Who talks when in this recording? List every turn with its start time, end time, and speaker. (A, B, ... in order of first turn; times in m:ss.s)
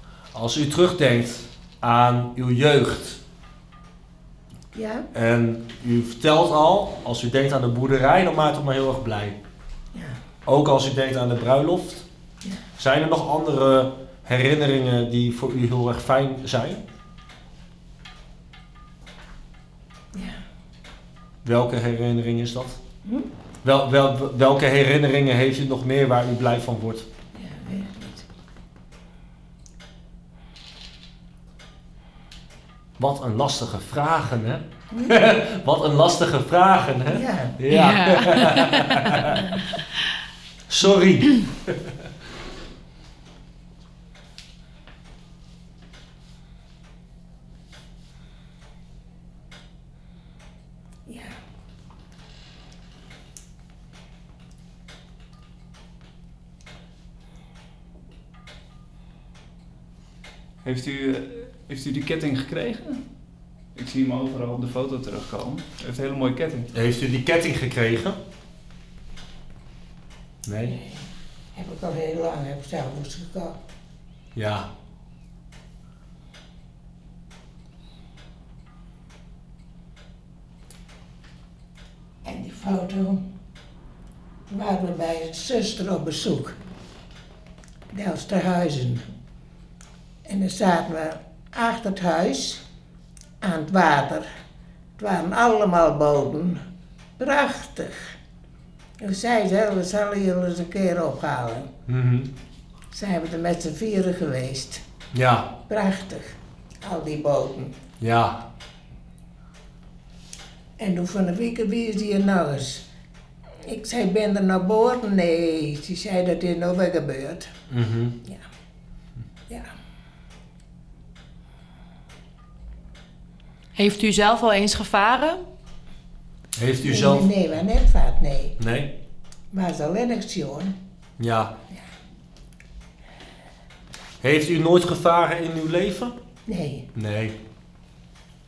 0:00.3-0:03.2 A
0:04.7-0:05.1 B
0:05.1-0:09.4 A
0:09.9-0:10.2 B
0:10.4-0:12.0 A
0:12.8-0:16.8 A
0:20.1-0:20.4 B
0:21.4-0:22.8 A
0:23.6-0:27.1 A
0:27.3-0:28.2 B
0:33.0-0:39.6 A
0:37.1-0:37.6 B
0:37.7-0:39.4 C
0:40.7-0:42.1 A
0:51.1-0:51.4 B
1:00.6-1:03.0 D
1:03.7-1:06.7 D
1:06.7-1:08.2 A
1:10.4-1:10.8 A
1:10.6-1:13.6 B
1:14.3-1:14.7 A
1:22.2-1:23.2 B
1:24.5-1:26.6 B
1:27.9-1:29.0 B
1:30.2-1:32.6 B
1:33.4-1:34.3 B
1:35.0-1:36.6 B
1:37.2-1:38.2 B
1:39.0-1:41.7 B
1:41.9-1:42.3 A
1:42.9-1:44.8 B
1:45.1-1:45.6 A
1:45.7-1:47.7 B
1:48.0-1:48.4 A
1:50.8-1:52.8 B
1:53.6-1:57.5 B
1:57.7-1:58.2 A
2:03.8-2:05.4 C
2:06.6-2:07.3 A
2:06.8-2:08.6 B
2:08.6-2:08.9 A
2:09.5-2:10.8 B
2:11.2-2:11.5 A
2:14.2-2:16.2 A
2:16.4-2:16.9 B
2:16.9-2:17.4 A